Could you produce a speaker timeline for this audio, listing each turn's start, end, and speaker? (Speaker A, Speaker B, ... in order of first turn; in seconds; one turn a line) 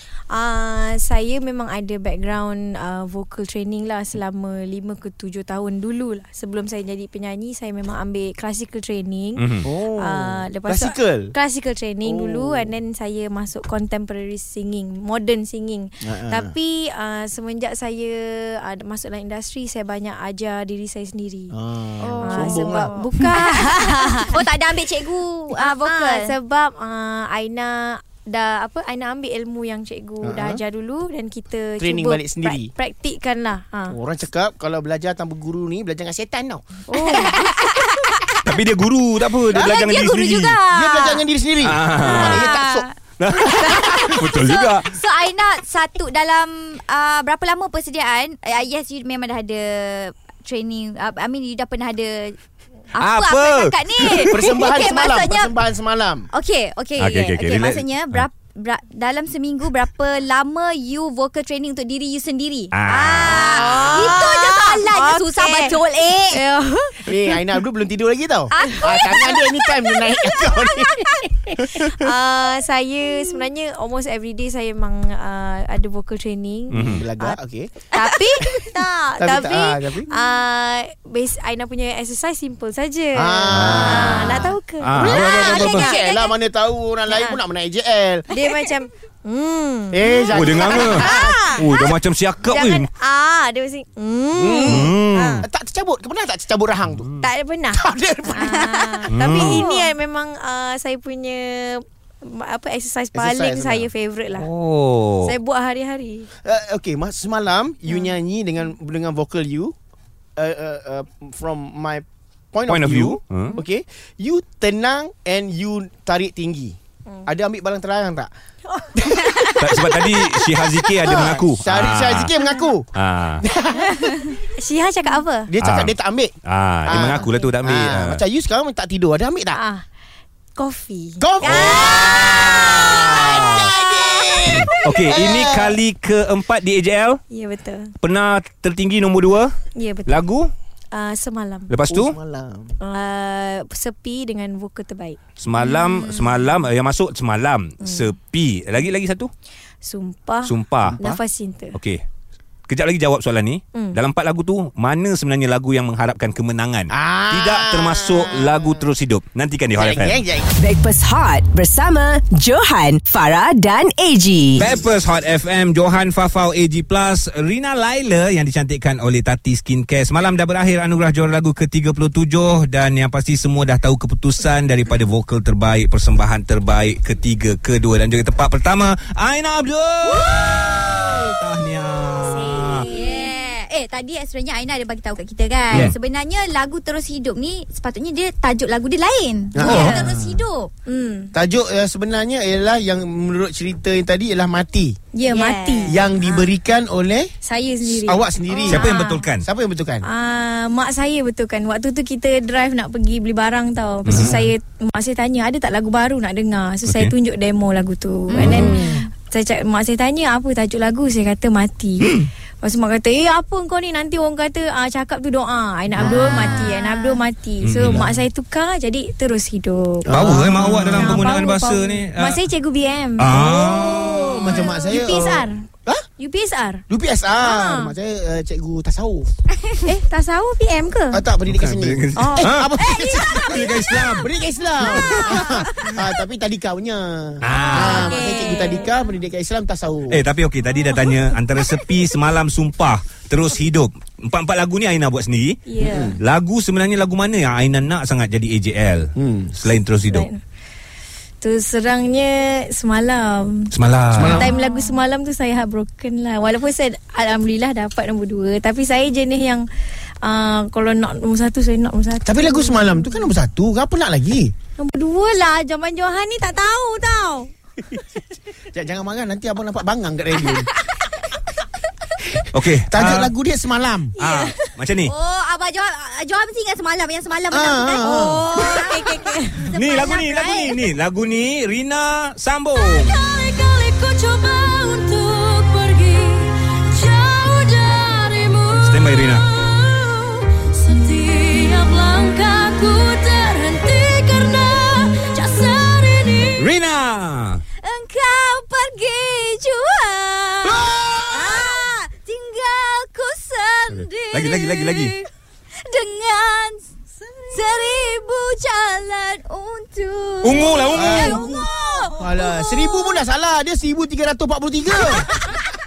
Speaker A: 0.3-21.5
Speaker B: 9.4-9.6
Speaker C: 9.6-11.3
Speaker C: 12.0-12.7
Speaker C: 16.0-16.5
Speaker C: 21.5-22.9
Speaker D: 22.0-26.3
Speaker A: 22.2-24.4
Speaker A: 25.5-34.0
Speaker C: 30.2-30.6
Speaker C: 31.8-32.7
Speaker C: 33.9-36.6
Speaker A: 36.9-37.5
Speaker D: 37.0-38.1
Speaker B: 38.5-40.6
Speaker C: 39.5-39.8
Speaker D: 39.5-41.3
Speaker C: 40.6-42.9
Speaker B: 41.6-42.5
Speaker D: 42.0-42.9
Speaker B: 43.2-45.0
Speaker C: 43.5-43.9
Speaker D: 43.5-52.4
Speaker D: 52.9-55.6
Speaker B: 53.0-54.5
Speaker C: 54.3-56.3
Speaker D: 56.3-66.4
Speaker B: 57.0-58.3
Speaker B: 62.7-63.5
Speaker C: 63.3-64.2
Speaker A: 63.4-67.5
Speaker C: 67.0-71.9
Speaker D: 68.5-71.0
Speaker A: 68.6-69.2
Speaker A: 71.6-77.4
Speaker C: 76.7-77.7
Speaker B: 76.7-77.1
Speaker D: 77.9-79.1
Speaker A: 78.0-86.0
Speaker C: 79.2-80.1
Speaker C: 83.2-88.3
Speaker B: 83.5-85.9
Speaker D: 85.0-86.3
Speaker A: 87.1-87.4
Speaker A: 88.3-95.4
Speaker C: 89.9-91.6
Speaker B: 90.3-92.9
Speaker C: 94.4-97.1
Speaker B: 94.6-95.5
Speaker A: 97.2-104.5
Speaker C: 97.7-99.1
Speaker D: 98.3-98.8
Speaker B: 99.1-99.7
Speaker D: 99.4-99.9
Speaker C: 103.1-103.9
Speaker B: 104.3-105.3
Speaker A: 105.2-106.3
Speaker C: 106.4-109.7
Speaker C: 110.4-118.3
Speaker B: 112.7-113.6
Speaker A: 118.7-121.2
Speaker C: 119.0-119.5
Speaker B: 119.6-122.3
Speaker C: 121.0-122.9
Speaker B: 123.0-123.4
Speaker C: 123.4-124.3
Speaker A: 124.0-125.5
Speaker C: 125.5-126.3
Speaker B: 125.6-125.9
Speaker B: 126.5-128.2
Speaker C: 126.9-129.6
Speaker A: 127.1-127.5
Speaker A: 129.5-129.8
Speaker A: 130.6-135.5
Speaker C: 131.2-135.8
Speaker B: 131.4-131.9
Speaker B: 133.2-133.7
Speaker B: 134.5-137.2
Speaker A: 137.3-137.9
Speaker B: 138.0-139.6
Speaker A: 139.7-140.2
Speaker B: 140.1-140.5
Speaker A: 140.9-141.8
Speaker B: 141.7-142.2
Speaker C: 141.9-142.8
Speaker A: 142.8-145.9
Speaker B: 145.4-149.3
Speaker A: 147.8-148.1
Speaker A: 149.8-151.8
Speaker B: 150.4-151.0
Speaker B: 151.7-152.0
Speaker B: 152.7-160.2
Speaker A: 153.7-154.0
Speaker C: 156.9-158.8
Speaker C: 159.8-160.5
Speaker E: 160.6-164.7
Speaker B: 164.6-182.9
Speaker D: 180.2-180.5
Speaker A: 182.3-183.3
Speaker D: 182.4-190.7
Speaker C: 189.6-190.4
Speaker A: 189.6-190.0
Speaker B: 189.7-189.9
Speaker A: 190.9-191.3
Speaker C: 191.3-195.0
Speaker A: 195.1-196.0
Speaker D: 195.3-196.4
Speaker C: 195.9-197.3
Speaker A: 197.4-199.3
Speaker C: 197.8-200.1
Speaker B: 198.7-199.4
Speaker A: 200.0-223.6
Speaker B: 204.1-204.4
Speaker C: 204.1-204.4
Speaker B: 206.9-207.1
Speaker C: 208.3-209.0
Speaker B: 208.3-208.8
Speaker B: 212.0-212.3
Speaker C: 215.9-216.4
Speaker D: 216.0-217.2
Speaker B: 217.6-218.1
Speaker C: 220.1-221.2
Speaker B: 220.1-222.4
Speaker B: 223.2-224.4
Speaker C: 223.3-226.0
Speaker A: 224.3-225.7
Speaker A: 226.2-226.8
Speaker C: 226.9-229.3
Speaker A: 227.4-227.9
Speaker A: 229.8-231.2
Speaker C: 231.1-240.2
Speaker B: 231.4-232.7
Speaker A: 232.2-234.2
Speaker B: 233.3-234.3
Speaker B: 234.9-235.9
Speaker A: 234.9-236.0
Speaker B: 237.4-238.2
Speaker A: 237.7-238.9
Speaker D: 237.9-238.9
Speaker B: 240.1-245.6
Speaker A: 240.8-241.1
Speaker A: 245.7-246.2
Speaker C: 245.8-246.2
Speaker B: 246.1-250.3
Speaker C: 249.2-249.5
Speaker A: 250.0-250.4
Speaker A: 251.4-253.7
Speaker B: 253.7-254.5
Speaker C: 254.1-254.5
Speaker A: 254.3-259.7
Speaker A: 260.2-263.3
Speaker C: 262.2-264.5
Speaker A: 264.8-267.5
Speaker C: 268.7-270.7
Speaker C: 272.3-274.1
Speaker B: 272.5-273.3
Speaker A: 274.2-274.9
Speaker B: 274.2-275.1
Speaker D: 275.0-280.8
Speaker C: 277.5-278.5
Speaker A: 278.0-279.8
Speaker B: 279.7-283.2
Speaker D: 282.8-296.6
Speaker B: 288.8-289.5
Speaker B: 296.6-297.6
Speaker D: 297.8-305.3
Speaker C: 300.8-301.7
Speaker B: 304.0-305.1
Speaker D: 305.9-306.9
Speaker D: 307.5-313.1
Speaker B: 310.4-311.6
Speaker C: 310.9-311.5
Speaker A: 311.1-311.6
Speaker C: 312.2-315.6